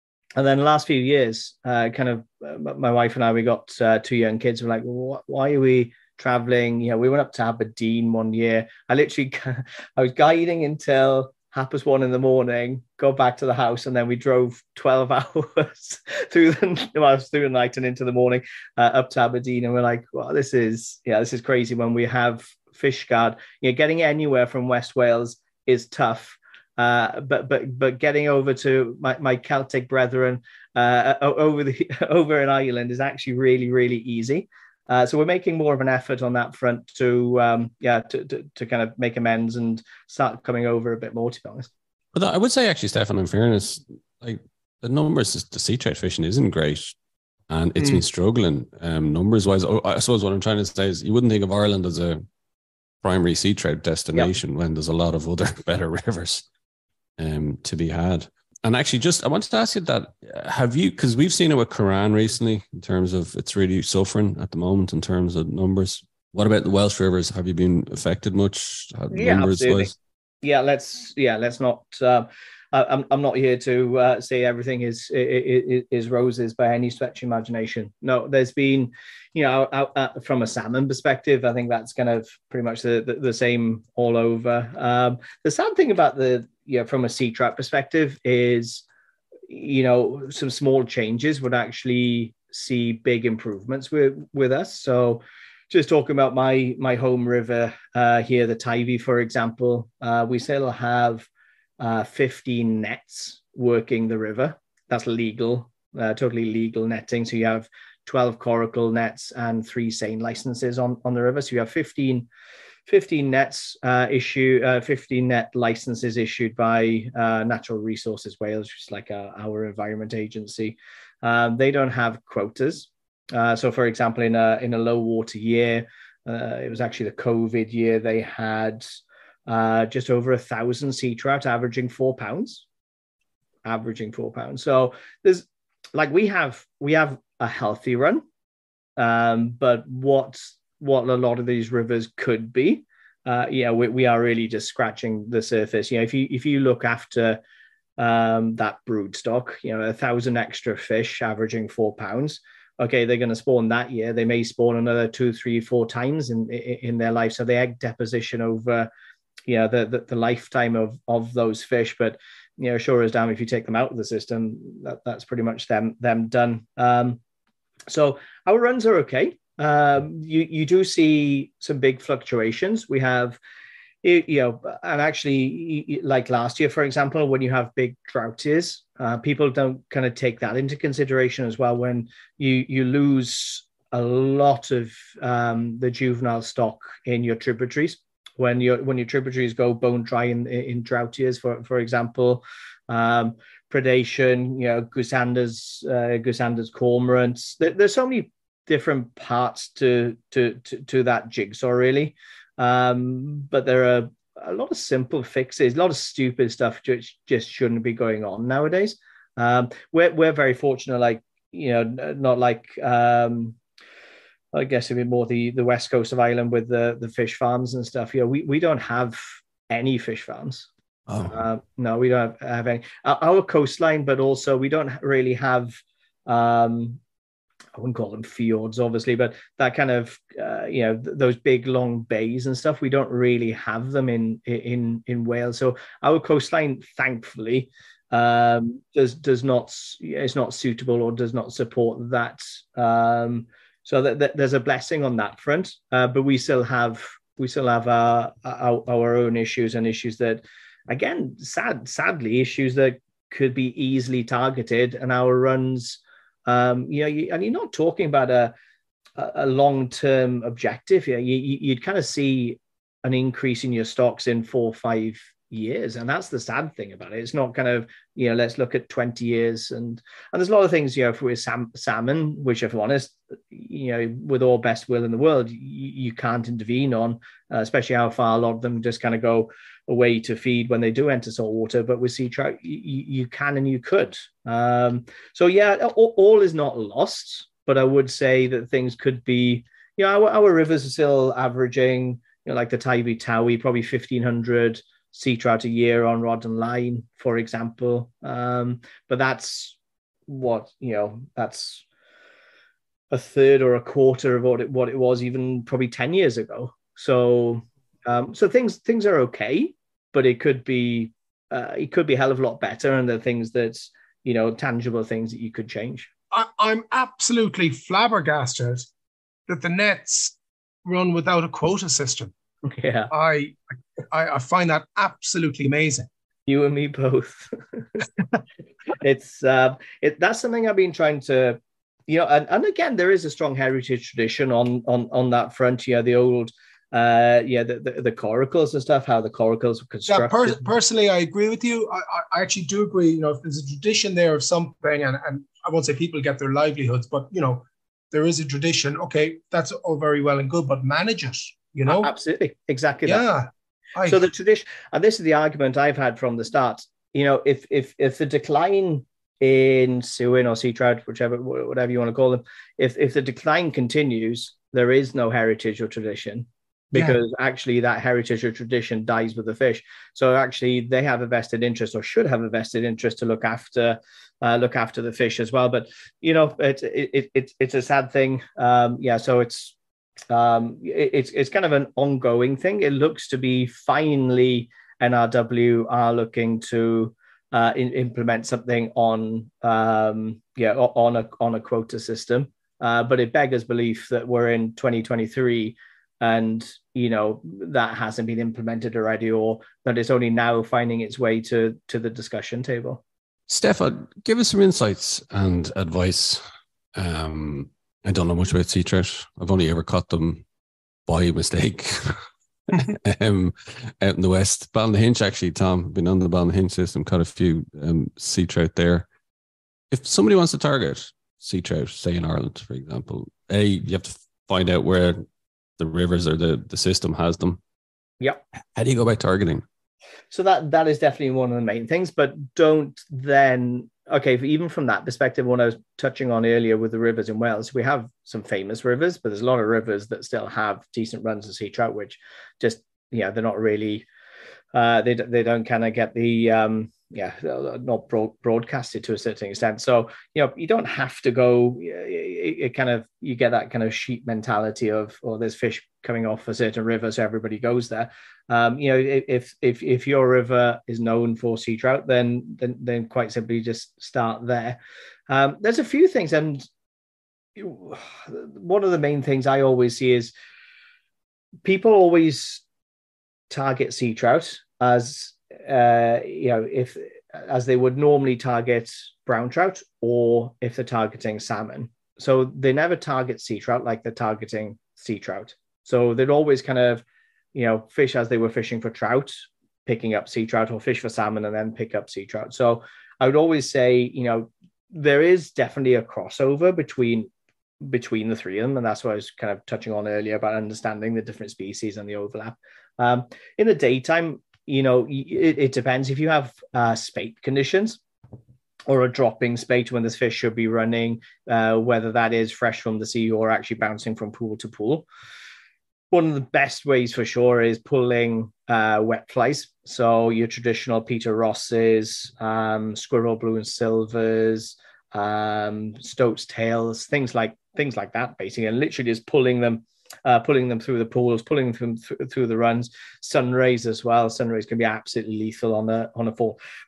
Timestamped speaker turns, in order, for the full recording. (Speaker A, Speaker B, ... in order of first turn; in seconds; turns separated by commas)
Speaker A: 0.4-41.7, Speaker B: 42.1-47.0, Speaker B: 47.5-52.2, Speaker C: 47.8-48.0, Speaker B: 53.0-56.4, Speaker B: 57.2-69.9, Speaker A: 69.1-69.9, Speaker A: 70.4-88.8, Speaker A: 89.5-101.3, Speaker A: 101.8-112.3, Speaker A: 112.9-128.8, Speaker A: 129.5-132.7, Speaker A: 133.6-138.2, Speaker A: 139.0-147.4, Speaker A: 148.0-158.9, Speaker A: 159.5-167.2, Speaker A: 167.9-173.4, Speaker A: 174.0-213.6, Speaker A: 214.5-220.7, Speaker B: 221.1-221.3, Speaker A: 221.2-225.7, Speaker A: 226.3-227.0, Speaker A: 227.8-258.5, Speaker A: 259.2-299.8, Speaker A: 300.3-301.8, Speaker A: 303.1-316.1, Speaker C: 316.3-318.8, Speaker C: 319.5-322.3, Speaker A: 322.6-323.1, Speaker C: 323.1-326.1, Speaker A: 326.5-328.0, Speaker A: 329.0-340.6, Speaker C: 340.1-352.1, Speaker A: 351.9-353.3, Speaker C: 353.1-354.2, Speaker A: 354.0-379.8, Speaker C: 366.9-367.2, Speaker A: 380.3-403.0, Speaker B: 403.5-406.4, Speaker B: 406.9-410.4, Speaker B: 411.1-419.1, Speaker B: 419.9-425.2, Speaker B: 425.8-427.6, Speaker B: 428.8-429.6, Speaker A: 430.3-444.1, Speaker A: 444.7-466.7, Speaker A: 467.6-470.3, Speaker A: 471.6-472.6, Speaker A: 473.5-497.3, Speaker A: 497.8-508.0, Speaker A: 508.9-515.0, Speaker A: 516.1-536.6